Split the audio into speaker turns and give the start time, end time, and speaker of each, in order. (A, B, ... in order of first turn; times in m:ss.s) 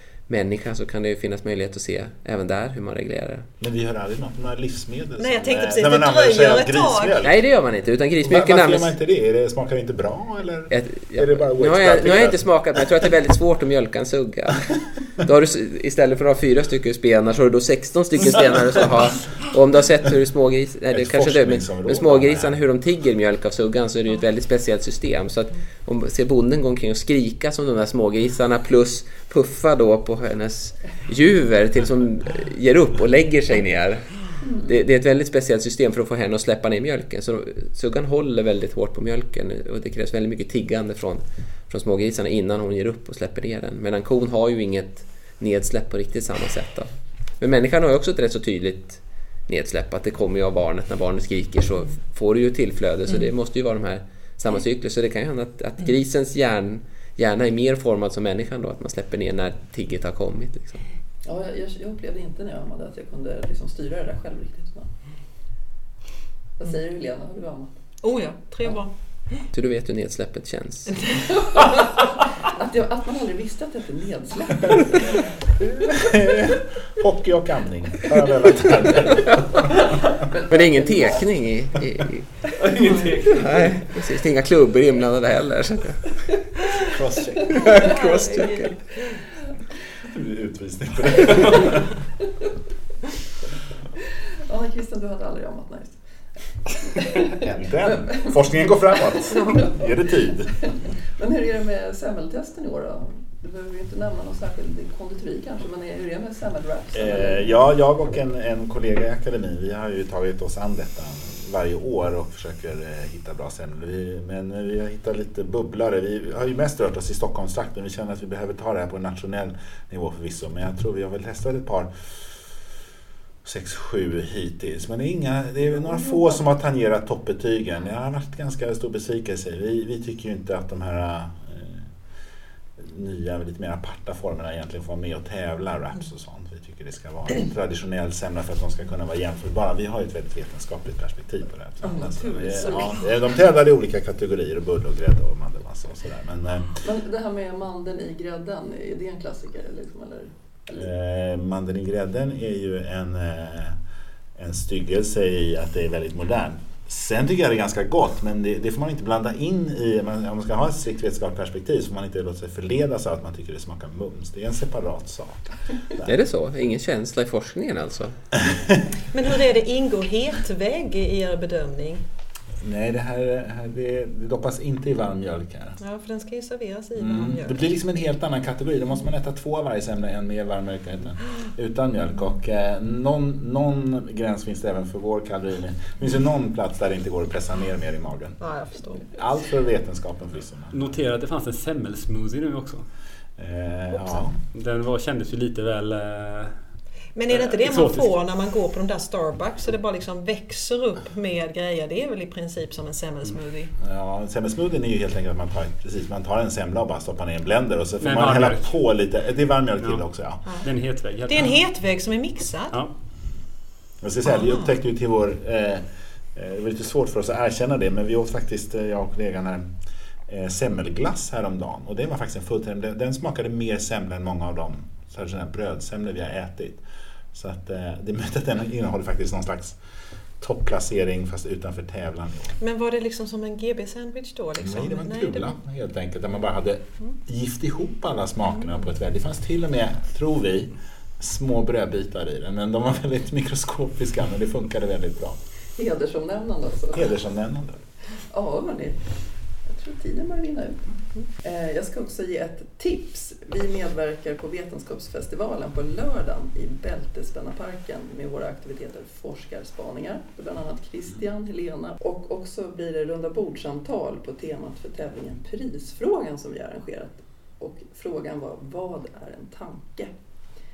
0:00.3-0:03.5 A
0:03.6-0:07.4 B
0:05.2-0:07.2 C
0:07.2-0:08.9 A
0:08.2-0:12.9 B
0:10.7-1:00.8 A
0:20.9-0:22.6 B
0:34.4-0:34.8 D
1:01.2-1:04.9 D
1:06.6-1:07.7 D
1:08.0-1:09.4 C
1:09.5-1:11.1 A
1:11.3-1:15.3 D
1:15.6-1:19.6 B
1:20.3-1:21.1 D
1:20.5-1:22.5 A
1:22.6-1:24.0 E
1:23.3-1:26.3 A
1:26.9-1:27.7 B
1:27.5-1:28.8 A
1:27.6-1:28.7 C
1:30.0-1:31.9 B
1:34.5-1:36.0 D
1:36.8-1:47.4 D
1:37.3-1:40.7 B
1:46.9-2:01.9 B
2:03.4-2:11.9 B
2:12.8-2:26.8 B
2:21.8-2:23.2 D
2:26.8-2:30.8 D
2:30.7-2:33.8 B
2:34.4-2:46.2 B
2:46.0-2:48.2 A
2:48.4-2:48.8 B
2:49.1-2:52.0 C
2:52.6-2:55.8 B
2:55.8-2:57.6 C
2:57.0-3:08.4 B
3:08.4-3:09.1 C
3:09.1-3:10.9 B
3:10.7-3:12.8 E
3:13.4-3:14.4 B
3:14.5-3:16.6 E
3:17.2-3:23.7 C
3:17.3-3:18.1 E
3:23.8-3:30.5 B
3:28.0-3:28.7 E
3:30.6-3:31.6 E
3:31.3-3:32.8 C
3:34.0-3:39.7 B
3:40.3-3:49.8 B
3:50.4-3:52.5 B
3:52.6-3:55.6 C
3:54.6-4:05.4 B
4:05.8-4:07.2 D
4:06.9-4:07.8 B
4:08.2-4:09.1 D
4:09.6-4:30.1 D